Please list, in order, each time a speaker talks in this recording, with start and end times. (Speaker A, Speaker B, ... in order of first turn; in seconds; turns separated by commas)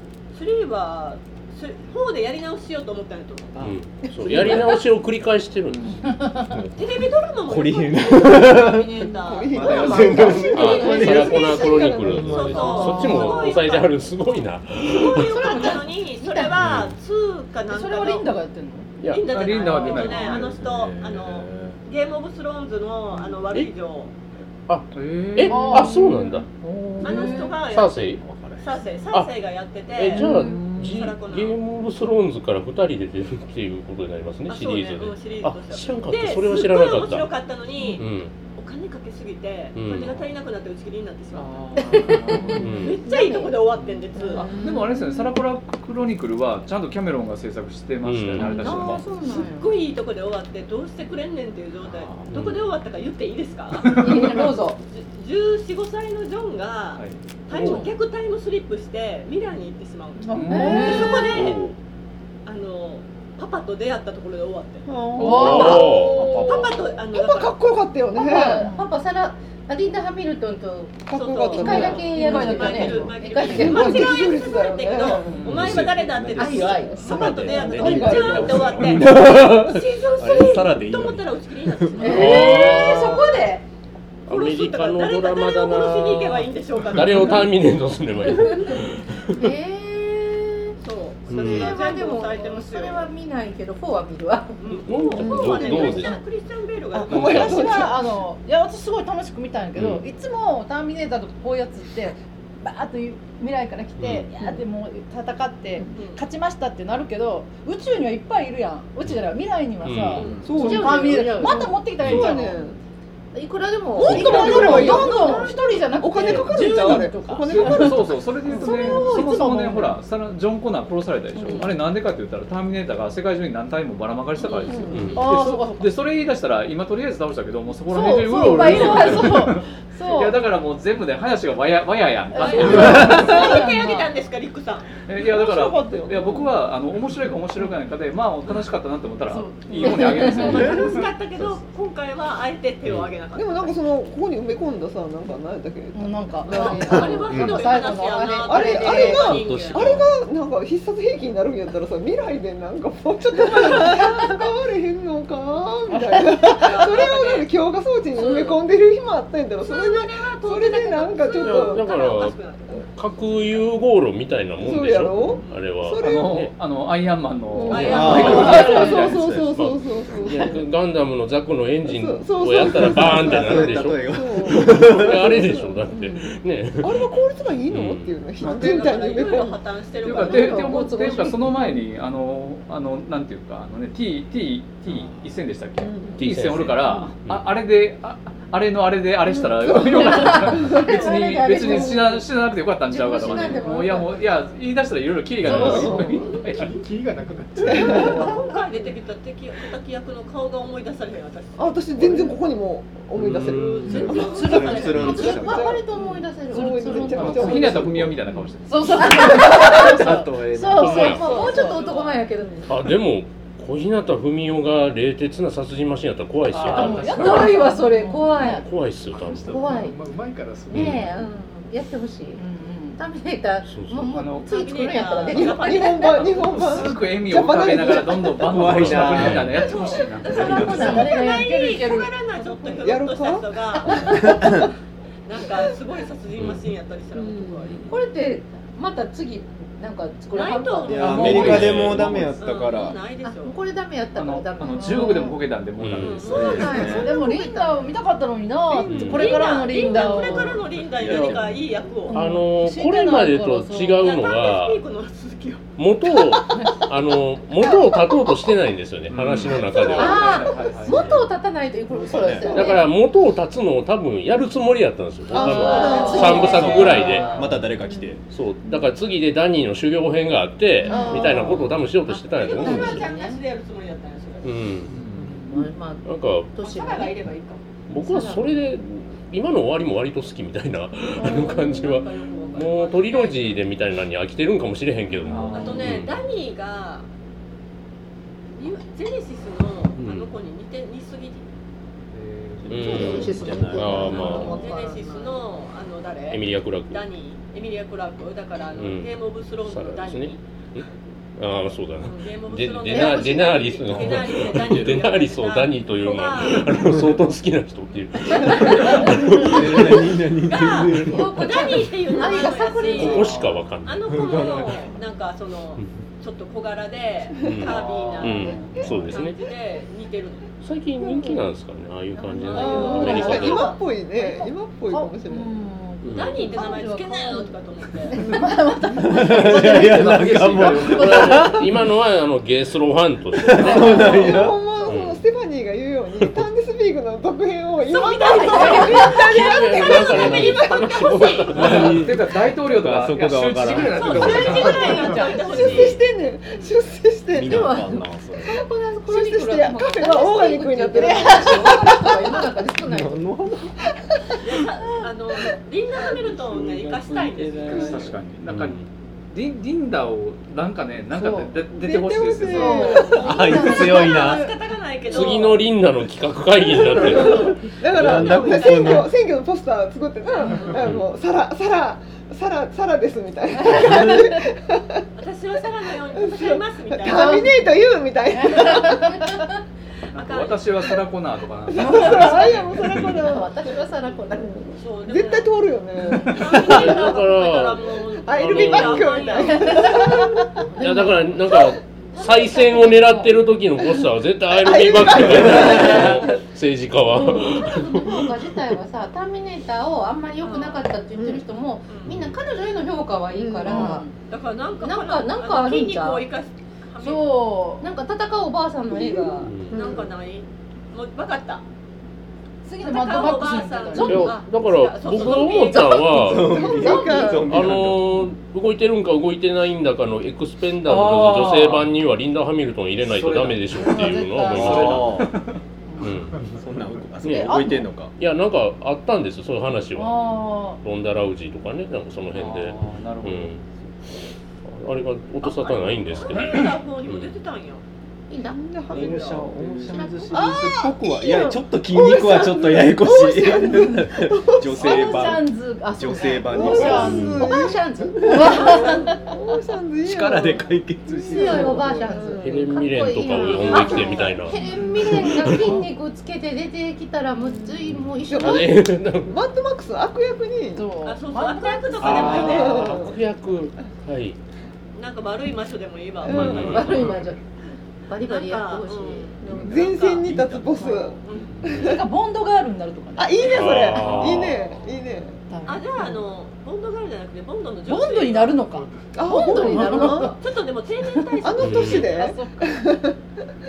Speaker A: 0.3-3.6, Speaker B: 3.5-4.6, Speaker C: 3.6-6.0, Speaker A: 4.3-4.6, Speaker B: 5.7-6.1, Speaker D: 6.0-6.5, Speaker E: 6.5-13.1, Speaker A: 6.8-14.0, Speaker F: 9.1-12.9, Speaker D: 9.6-11.3, Speaker C: 10.5-15.7, Speaker D: 12.5-13.5, Speaker A: 14.8-18.3, Speaker D: 15.1-16.5, Speaker C: 16.6-16.9, Speaker D: 17.7-18.9, Speaker C: 19.0-19.8, Speaker A: 19.1-24.1, Speaker B: 19.2-20.5, Speaker E: 20.1-21.8, Speaker C: 24.7-26.5, Speaker B: 24.9-26.3, Speaker D: 25.5-27.6, Speaker B: 26.9-27.4, Speaker A: 27.0-30.2, Speaker C: 27.6-28.2, Speaker E: 28.2-28.6, Speaker C: 29.9-37.3, Speaker D: 30.2-30.6, Speaker B: 30.2-31.1, Speaker A: 31.0-31.6, Speaker A: 34.5-42.2, Speaker C: 38.0-38.3, Speaker C: 39.8-40.2, Speaker B: 41.3-42.9, Speaker G: 42.1-43.6, Speaker D: 42.3-42.8, Speaker C: 42.5-43.0, Speaker A: 42.8-44.5, Speaker B: 43.8-49.1, Speaker F: 44.4-45.2, Speaker C: 48.0-49.0, Speaker G: 48.4-49.6, Speaker D: 48.5-48.8, Speaker A: 49.2-54.3, Speaker B: 51.8-52.6, Speaker C: 52.3-52.6, Speaker B: 53.8-54.4, Speaker D: 54.0-54.8, Speaker A: 54.9-61.6, Speaker B: 57.0-57.9, Speaker C: 57.5-57.9, Speaker B: 60.3-61.1, Speaker D: 60.4-61.5, Speaker F: 60.5-61.2, Speaker C: 61.2-61.8, Speaker A: 62.4-64.9, Speaker F: 64.9-68.7, Speaker D: 65.2-66.2, Speaker B: 65.2-65.7, Speaker C: 65.2-66.2, Speaker A: 65.5-67.6, Speaker E: 66.2-66.7, Speaker G: 68.1-74.2, Speaker D: 68.4-68.9, Speaker F: 71.1-75.5, Speaker A: 71.1-82.7, Speaker D: 71.6-73.8, Speaker B: 75.3-75.9, Speaker E: 75.4-82.0, Speaker D: 76.4-77.0, Speaker G: 76.4-76.9, Speaker F: 76.8-78.8, Speaker D: 82.0-83.6, Speaker C: 82.0-83.4, Speaker C: 84.2-89.5, Speaker A: 84.3-87.5, Speaker G: 89.3-90.8, Speaker A: 90.8-93.1, Speaker C: 91.3-91.8, Speaker G: 91.3-95.8, Speaker A: 94.6-97.8, Speaker C: 94.9-96.2, Speaker F: 95.2-96.2, Speaker F: 96.9-98.1, Speaker C: 97.1-97.6, Speaker D: 97.1-112.6, Speaker C: 99.7-100.0, Speaker C: 104.0-104.3, Speaker F: 104.3-104.6, Speaker A: 105.9-106.2, Speaker C: 109.8-110.3, Speaker A: 110.1-110.5, Speaker F: 110.4-112.8, Speaker G: 110.5-112.4, Speaker C: 112.0-112.3, Speaker G: 113.3-115.5, Speaker D: 114.0-120.0, Speaker F: 114.0-119.4, Speaker C: 114.0-114.9, Speaker B: 117.5-133.5, Speaker D: 121.3-121.7, Speaker F: 121.4-121.7, Speaker A: 124.4-124.7, Speaker F: 124.7-125.2, Speaker C: 124.9-125.3, Speaker D: 125.1-126.0, Speaker D: 127.9-130.4, Speaker D: 132.3-134.1, Speaker A: 132.3-134.9, Speaker B: 135.1-141.1, Speaker F: 135.2-136.5, Speaker D: 139.2-140.9, Speaker F: 139.8-140.4, Speaker A: 139.8-143.8, Speaker F: 143.3-147.4, Speaker D: 145.9-149.3, Speaker A: 146.5-150.0, Speaker E: 147.3-147.6, Speaker G: 148.1-149.0, Speaker F: 148.4-161.9, Speaker E: 149.0-150.1, Speaker D: 155.9-156.3, Speaker A: 156.5-157.5, Speaker A: 158.1-158.6, Speaker A: 159.6-162.9, Speaker C: 161.4-166.5, Speaker F: 164.6-166.4, Speaker B: 165.5-169.4, Speaker F: 167.5-170.6, Speaker A: 167.7-168.8, Speaker C: 167.7-168.5, Speaker E: 167.9-169.5, Speaker C: 169.5-177.1, Speaker F: 171.8-179.6, Speaker E: 172.7-175.4, Speaker C: 177.7-178.2, Speaker A: 178.4-180.9, Speaker B: 178.5-178.8, Speaker B: 180.0-196.7, Speaker D: 180.1-181.8, Speaker F: 185.8-186.2, Speaker C: 186.2-187.5, Speaker F: 189.4-191.0, Speaker D: 189.9-192.2, Speaker A: 190.9-191.2, Speaker G: 191.3-192.0, Speaker F: 191.7-192.0, Speaker G: 192.9-194.2, Speaker D: 195.4-196.2, Speaker F: 195.6-196.3, Speaker H: 196.4-198.3, Speaker F: 197.7-198.5, Speaker A: 197.7-202.1, Speaker F: 201.6-208.2, Speaker C: 203.1-204.3, Speaker A: 203.3-204.9, Speaker E: 203.6-205.8, Speaker D: 204.2-205.4, Speaker G: 204.5-207.9, Speaker D: 206.5-207.6, Speaker B: 207.2-211.0, Speaker D: 208.6-212.0, Speaker E: 210.1-210.9, Speaker C: 210.7-211.3, Speaker G: 210.9-212.8, Speaker A: 211.2-212.2, Speaker C: 212.7-217.5, Speaker B: 216.5-217.9, Speaker D: 216.7-218.7, Speaker G: 217.2-218.6, Speaker C: 218.3-219.6, Speaker H: 219.1-221.2, Speaker G: 219.4-220.0, Speaker G: 220.7-222.4, Speaker C: 220.7-221.1, Speaker D: 222.3-223.0, Speaker G: 222.9-226.1, Speaker C: 223.7-224.1, Speaker B: 224.1-224.6, Speaker A: 224.4-226.7, Speaker F: 225.2-228.6, Speaker B: 226.1-231.0, Speaker E: 228.4-229.7, Speaker C: 228.6-229.7, Speaker A: 229.6-234.7, Speaker E: 230.2-231.1, Speaker D: 230.5-232.1, Speaker F: 232.8-234.7, Speaker E: 234.2-234.6, Speaker A: 235.2-237.9, Speaker C: 236.4-236.6, Speaker F: 237.1-237.8, Speaker G: 237.9-241.6, Speaker A: 240.3-241.8, Speaker D: 240.8-241.4, Speaker E: 240.9-243.0, Speaker B: 241.1-242.4, Speaker C: 241.3-242.2, Speaker A: 242.4-243.6, Speaker G: 243.2-245.4, Speaker B: 244.2-247.0, Speaker D: 244.8-245.2, Speaker C: 245.8-246.3, Speaker A: 245.9-247.1, Speaker G: 246.2-247.9, Speaker E: 246.3-247.1, Speaker D: 246.9-250.6, Speaker C: 248.9-249.4, Speaker A: 249.0-252.2, Speaker F: 249.7-250.3, Speaker B: 250.8-251.4, Speaker E: 251.0-251.3, Speaker C: 251.0-251.4, Speaker D: 252.1-254.1, Speaker C: 252.1-254.8, Speaker A: 253.9-255.6, Speaker C: 255.8-261.1, Speaker D: 256.5-256.9, Speaker B: 259.1-261.3, Speaker G: 259.9-262.9, Speaker E: 262.0-262.5, Speaker F: 262.1-262.8, Speaker C: 262.5-267.5, Speaker F: 265.3-266.9, Speaker A: 265.4-267.1, Speaker G: 265.4-266.9, Speaker B: 265.6-267.7, Speaker D: 266.0-267.2, Speaker E: 266.4-268.2, Speaker C: 268.3-273.0, Speaker D: 270.9-271.3, Speaker F: 270.9-271.6, Speaker G: 270.9-273.4, Speaker A: 272.3-274.6, Speaker C: 274.4-274.9, Speaker B: 274.9-275.7, Speaker G: 275.5-277.2, Speaker C: 276.0-276.5, Speaker A: 276.6-277.6, Speaker C: 277.9-286.2, Speaker G: 277.9-278.6, Speaker D: 281.2-281.6, Speaker A: 281.2-283.7, Speaker B: 285.2-286.0, Speaker A: 285.5-287.1, Speaker A: 288.6-291.4, Speaker C: 290.0-290.3, Speaker B: 292.1-293.3, Speaker E: 292.6-294.6, Speaker C: 292.7-294.6, Speaker G: 292.8-295.4, Speaker A: 294.0-300.4, Speaker C: 296.3-297.0, Speaker C: 298.7-300.9, Speaker C: 301.4-310.2, Speaker A: 302.0-307.0, Speaker G: 302.9-303.5, Speaker E: 304.2-305.0, Speaker A: 308.3-309.2, Speaker E: 309.1-311.5, Speaker A: 310.4-320.5, Speaker G: 311.1-313.5, Speaker C: 312.9-314.2, Speaker E: 314.1-314.9, Speaker C: 317.4-319.4, Speaker B: 317.6-319.1, Speaker C: 320.6-323.7, Speaker F: 321.0-321.4, Speaker A: 322.3-323.8, Speaker G: 322.3-323.2, Speaker F: 322.5-325.6, Speaker D: 322.7-323.4, Speaker D: 324.1-327.5, Speaker C: 326.0-326.5, Speaker A: 326.1-328.2, Speaker D: 328.1-331.6, Speaker F: 328.1-328.6, Speaker E: 328.9-331.8, Speaker B: 329.4-331.4, Speaker C: 330.4-334.2, Speaker E: 333.4-334.6, Speaker D: 333.6-334.1, Speaker F: 333.6-340.9, Speaker C: 334.9-335.2, Speaker C: 336.2-336.4, Speaker A: 337.9-341.8, Speaker D: 338.4-339.0, Speaker C: 339.0-342.0, Speaker E: 341.5-344.7, Speaker B: 341.5-345.2, Speaker A: 343.8-346.7, Speaker F: 344.6-347.9, Speaker D: 344.8-345.5, Speaker E: 347.3-348.6, Speaker D: 347.4-348.2, Speaker G: 348.4-353.3, Speaker F: 349.0-352.0, Speaker D: 350.9-352.0, Speaker E: 352.8-353.7, Speaker A: 354.4-358.0, Speaker E: 356.2-358.1, Speaker B: 357.6-363.1, Speaker C: 358.5-358.9, Speaker D: 361.1-361.5, Speaker F: 361.7-364.0, Speaker D: 362.5-364.3, Speaker A: 362.5-365.6, Speaker E: 363.2-364.5, Speaker C: 365.1-367.6, Speaker A: 366.8-369.1, Speaker E: 366.9-369.1, Speaker F: 366.9-375.0, Speaker A: 370.4-370.8, Speaker C: 370.8-371.0, Speaker D: 373.8-374.2, Speaker A: 375.1-377.6, Speaker F: 376.1-379.2, Speaker D: 377.2-377.5, Speaker D: 378.4-379.4, Speaker A: 380.1-380.7, Speaker B: 380.1-383.1, Speaker F: 381.7-383.7, Speaker G: 383.1-384.5, Speaker F: 384.3-387.2, Speaker A: 384.7-385.5, Speaker A: 386.2-390.0, Speaker C: 386.4-389.3, Speaker F: 388.2-390.6, Speaker G: 390.6-393.4, Speaker C: 390.8-398.3, Speaker F: 394.5-396.4, Speaker G: 395.6-396.0, Speaker G: 397.1-404.1, Speaker A: 400.4-400.8, Speaker F: 401.1-401.4, Speaker A: 401.9-402.1, Speaker C: 402.1-402.4, Speaker F: 403.3-404.0, Speaker D: 403.6-404.1, Speaker A: 404.3-407.5, Speaker G: 404.8-406.2, Speaker D: 407.0-407.9, Speaker G: 407.8-409.6, Speaker F: 408.9-410.1, Speaker C: 409.4-409.7, Speaker A: 409.7-411.6, Speaker D: 412.6-414.4, Speaker A: 412.8-417.4, Speaker C: 414.0-416.6, Speaker E: 416.0-418.1, Speaker F: 416.3-417.6, Speaker C: 417.5-425.2, Speaker B: 420.9-421.9, Speaker B: 423.0-425.6, Speaker D: 423.8-425.1, Speaker E: 424.5-425.3, Speaker D: 425.9-426.2, Speaker C: 426.0-426.4, Speaker E: 426.5-428.1, Speaker C: 427.2-427.6, Speaker D: 427.2-427.9, Speaker C: 428.2-433.6, Speaker D: 429.9-430.8, Speaker B: 432.3-433.6, Speaker C: 434.6-437.3, Speaker A: 435.4-437.8, Speaker B: 436.4-436.6, Speaker G: 438.3-438.6, Speaker F: 438.4-445.4, Speaker E: 438.9-447.4, Speaker A: 438.9-439.5, Speaker G: 439.9-440.9, Speaker D: 444.8-447.5, Speaker F: 446.4-455.1, Speaker G: 446.6-448.9, Speaker C: 446.9-447.4, Speaker D: 448.1-449.3, Speaker A: 448.6-448.9, Speaker E: 450.0-451.9, Speaker G: 451.3-458.8, Speaker C: 452.4-455.8, Speaker D: 455.5-455.9, Speaker F: 457.4-460.9, Speaker C: 457.9-459.4, Speaker D: 460.7-462.9, Speaker A: 461.0-463.0, Speaker C: 462.0-464.4, Speaker F: 462.0-463.2, Speaker A: 464.9-467.0, Speaker F: 466.2-467.0, Speaker C: 466.2-467.2, Speaker G: 466.3-467.4, Speaker G: 468.1-469.4, Speaker A: 468.2-470.4, Speaker F: 469.4-471.9, Speaker E: 469.5-470.8, Speaker A: 471.2-471.5, Speaker B: 471.5-471.7, Speaker C: 471.7-472.0, Speaker D: 471.7-473.5, Speaker F: 473.2-475.4, Speaker A: 473.4-474.3, Speaker C: 473.5-474.6, Speaker B: 474.1-475.1, Speaker D: 475.5-476.2, Speaker A: 475.6-478.7, Speaker D: 477.9-480.4, Speaker F: 479.1-480.4, Speaker A: 479.7-482.1, Speaker G: 479.7-480.1, Speaker F: 481.4-483.1, Speaker C: 481.6-482.1, Speaker D: 482.0-483.0